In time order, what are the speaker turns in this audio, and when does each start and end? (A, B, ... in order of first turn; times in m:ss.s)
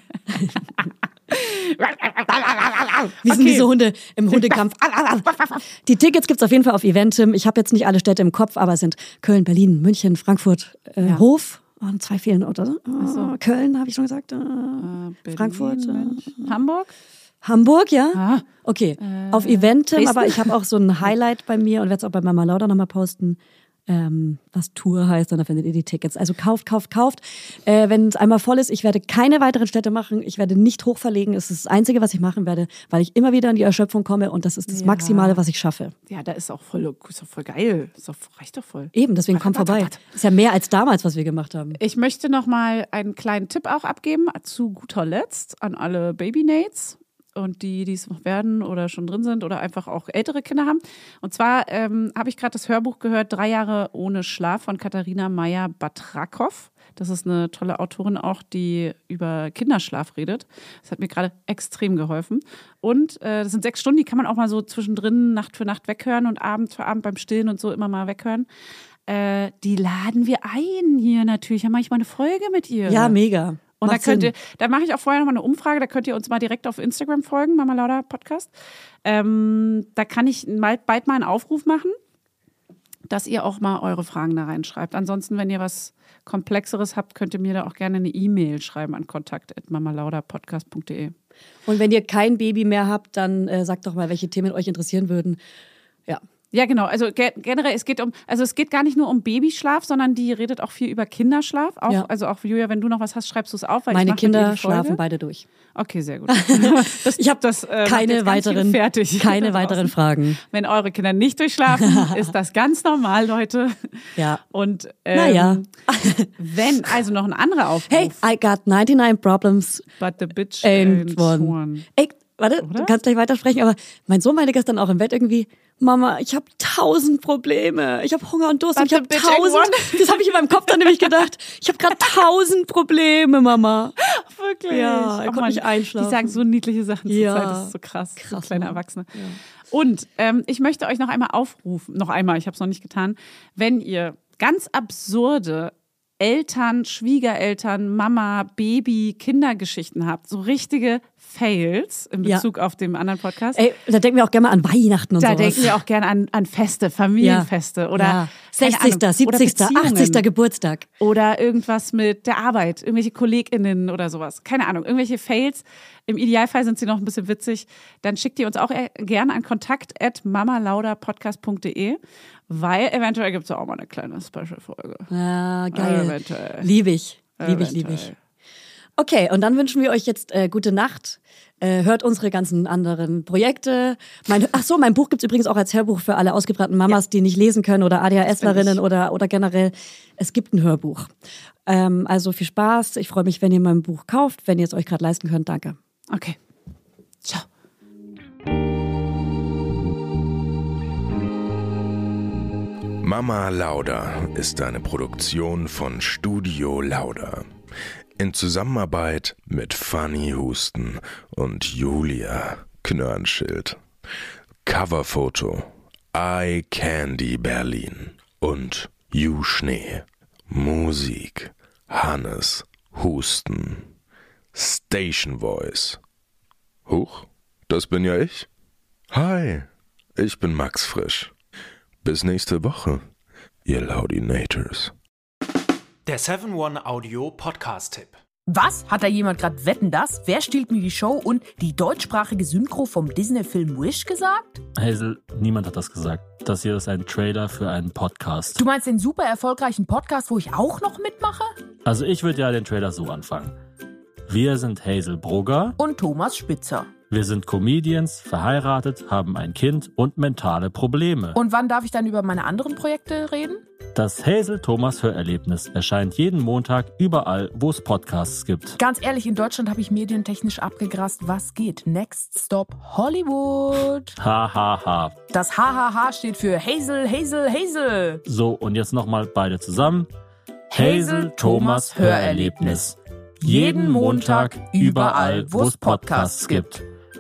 0:00.6-0:03.7 A
0:03.2-0:16.5 B
0:04.3-0:04.6 A
0:13.0-0:13.4 A
0:14.8-0:16.9 A
0:17.4-0:35.9 B
0:18.1-0:18.5 A
0:19.0-0:20.5 A
0:34.7-0:35.4 A
0:36.1-0:40.0 A
0:38.9-0:41.8 B
0:41.8-1:08.5 A
1:09.1-1:13.2 A
1:12.9-1:14.3 B
1:13.8-1:18.5 A
1:19.0-1:22.0 A
1:23.1-1:31.1 A
1:31.7-1:35.4 B
1:36.5-1:45.0 A
1:43.9-1:45.4 B
1:45.8-1:55.7 A
1:46.3-1:50.4 B
1:51.8-1:52.3 B
1:55.1-1:56.3 B
1:56.4-1:58.2 A
1:57.9-1:59.8 B
2:00.0-2:01.9 A
2:00.6-2:14.0 B
2:02.6-2:03.0 A
2:08.8-2:11.2 A
2:14.0-2:19.1 A
2:14.7-2:16.4 B
2:17.1-2:19.4 B
2:19.7-2:33.6 A
2:33.6-2:35.8 B
2:35.2-2:40.2 A
2:37.2-2:40.9 B
2:41.0-2:55.1 A
2:55.1-2:58.1 B
2:55.7-2:56.7 A
2:57.4-2:58.2 A
2:59.0-3:11.1 B
3:08.3-3:08.8 A
3:11.7-3:15.8 B
3:16.1-3:16.4 A
3:23.0-3:27.5 C
3:28.2-3:33.8 C
3:34.6-3:43.9 C
3:44.5-3:46.0 C
3:46.9-3:48.5 C
3:49.1-3:51.3 C
3:52.0-3:53.0 C
3:53.6-3:54.9 C
3:56.1-3:58.2 D
3:58.5-4:04.6 E
4:04.8-4:08.6 F
4:08.6-4:11.5 E
4:11.8-4:13.5 F
4:14.3-4:15.8 F
4:15.8-4:16.9 E
4:17.1-4:21.4 F
4:21.3-4:23.6 E
4:24.0-4:28.8 F
4:28.8-4:34.2 E
4:34.2-4:35.2 F
4:35.3-4:38.2 E
4:38.3-4:40.1 F
4:40.7-4:46.7 E
4:40.7-4:46.8 F